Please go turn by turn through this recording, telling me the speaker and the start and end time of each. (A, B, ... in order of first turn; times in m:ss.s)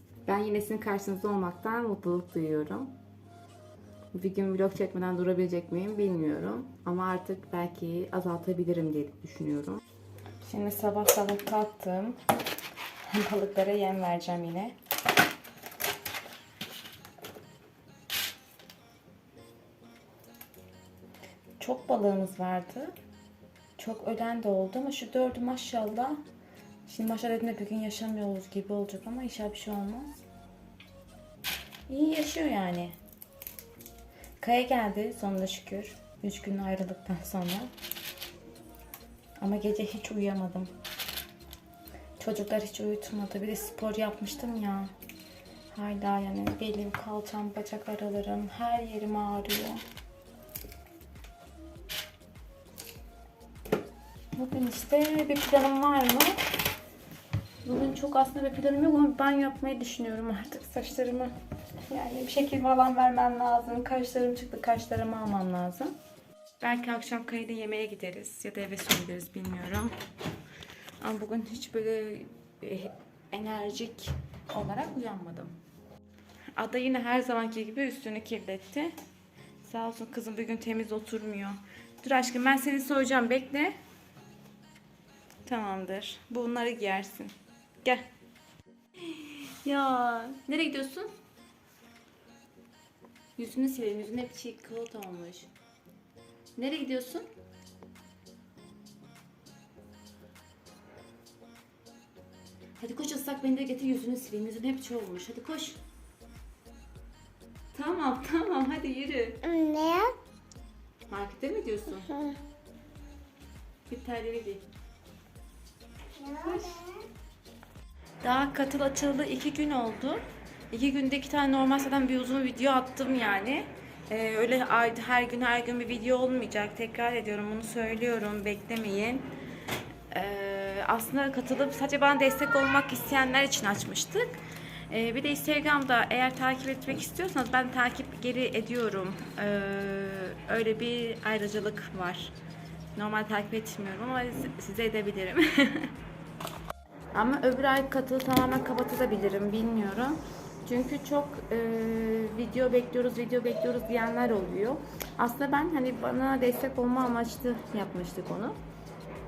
0:00.2-0:02.9 A
0:04.1-0:09.8 A
0:10.4-0:12.2 A
0:13.0-0:14.8 A
0:21.6-0:22.9 A
0:23.8-0:26.2 A
0:26.9-0:30.2 A
0:31.9-0:33.0 A
0:34.4-0:37.7 A
0:39.4-0:40.7 A
0:42.2-0:44.9 A
0:45.7-0:49.8 A
0:54.4-0:56.4 A
0:57.6-1:01.3 A
1:01.9-1:05.9 A
1:06.6-1:09.9 A
1:11.0-1:15.6 A
1:16.6-1:18.9 A
1:19.6-1:23.8 A
1:25.4-1:27.3 A
1:27.8-1:28.1 A
1:29.1-1:31.1 A
1:33.4-1:35.5 A
1:36.6-1:37.3 A
1:42.8-1:45.8 A
1:47.7-1:49.4 A
1:49.4-1:50.1 B
1:51.1-1:52.1 A
1:52.1-1:52.4 B
1:53.9-1:54.6 A
1:56.2-1:57.0 B
1:58.2-2:09.3 A
2:10.1-2:14.4 A
2:14.9-2:22.3 A
2:22.9-2:25.9 A
2:27.1-2:38.6 A